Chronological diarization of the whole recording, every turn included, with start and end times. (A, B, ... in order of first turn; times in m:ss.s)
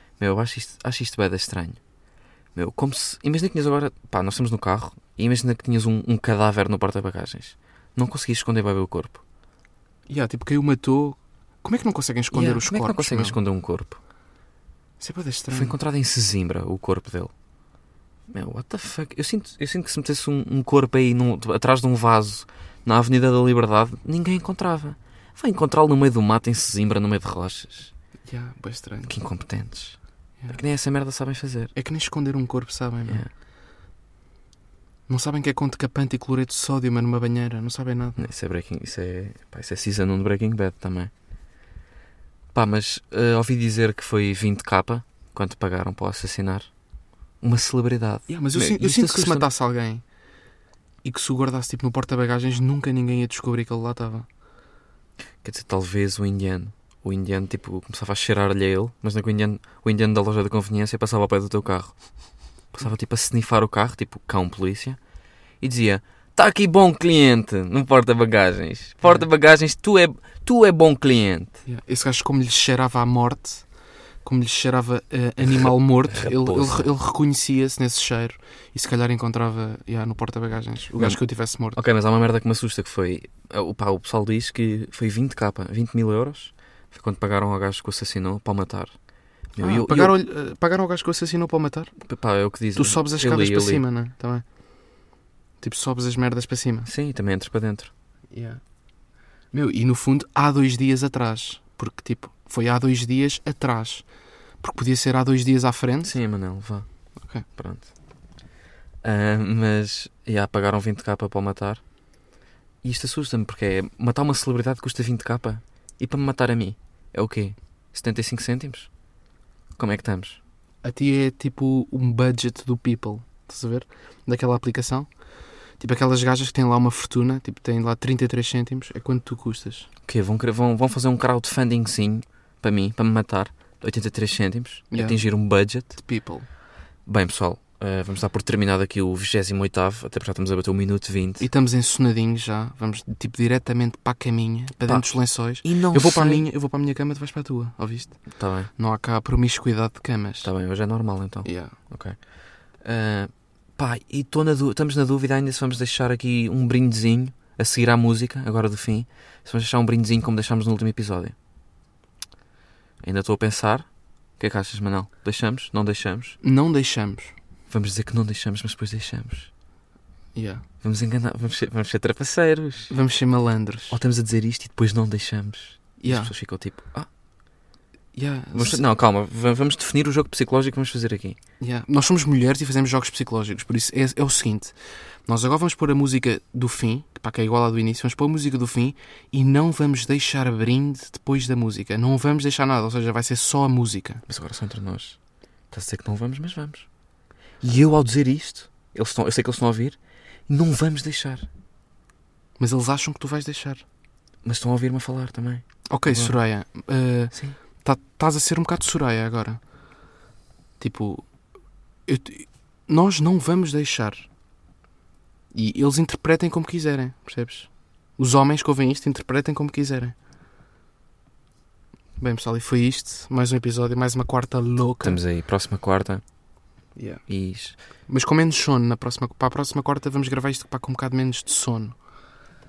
0:00.2-0:01.8 A
0:02.6-0:09.2 A
0:10.1-0:13.4 B
0:12.3-0:14.0 A
0:15.0-0:15.7 B
0:15.5-0:17.3 A
0:18.3-0:27.9 A
0:28.3-0:29.1 B
0:29.1-0:30.0 A
0:30.5-0:31.7 A
0:31.8-0:33.2 B
0:35.1-0:38.2 B
0:38.2-0:41.1 A
0:42.5-0:46.7 A
0:47.4-0:49.5 A
0:48.3-0:50.0 B
0:51.0-0:54.3 B
0:55.4-1:02.0 A
1:02.7-1:05.0 A
1:05.6-1:11.6 A
1:11.7-1:13.7 B
1:14.2-1:21.8 B
1:15.5-1:16.9 A
1:21.7-1:29.0 A
1:29.6-1:30.2 A
1:29.6-1:31.9 B
1:32.0-1:33.8 A
1:32.8-1:34.4 B
1:35.6-1:36.9 B
1:36.9-1:37.9 A
1:38.3-1:38.6 B
1:39.5-1:44.1 B
1:44.6-1:46.2 B
1:46.0-1:46.9 A
1:47.2-1:47.4 B
1:47.4-1:47.9 A
1:49.0-1:51.8 A
1:52.8-1:58.9 A
1:59.8-2:00.4 A
2:00.8-2:05.1 B
2:05.8-2:09.9 B
2:10.1-2:16.0 A
2:14.9-2:15.2 B
2:15.9-2:16.5 B
2:17.1-2:21.5 A
2:21.4-2:30.5 B
2:24.9-2:26.4 A
2:28.4-2:28.7 A
2:30.4-2:41.4 A
2:31.4-2:31.8 B
2:43.0-2:43.9 A
2:44.4-2:46.4 A
2:46.4-2:47.3 B
2:47.7-2:49.5 A
2:50.4-2:50.6 B
2:50.8-2:52.9 A
2:52.9-2:54.0 B
2:53.9-2:57.1 A
2:56.0-2:56.3 B
2:58.2-2:58.8 B
2:58.5-3:01.4 A
3:01.6-3:04.8 B
3:05.3-3:14.2 B
3:14.3-3:15.2 A
3:15.7-3:16.9 A
3:17.6-3:21.5 A
3:22.6-3:23.8 B
3:24.4-3:26.4 A
3:25.9-3:29.6 B
3:30.8-3:31.3 B
3:32.1-3:34.3 B
3:35.5-3:40.2 B
3:42.2-3:45.2 B
3:45.0-3:46.2 A
3:47.0-3:47.2 B
3:47.3-3:47.8 A
3:48.1-3:52.0 B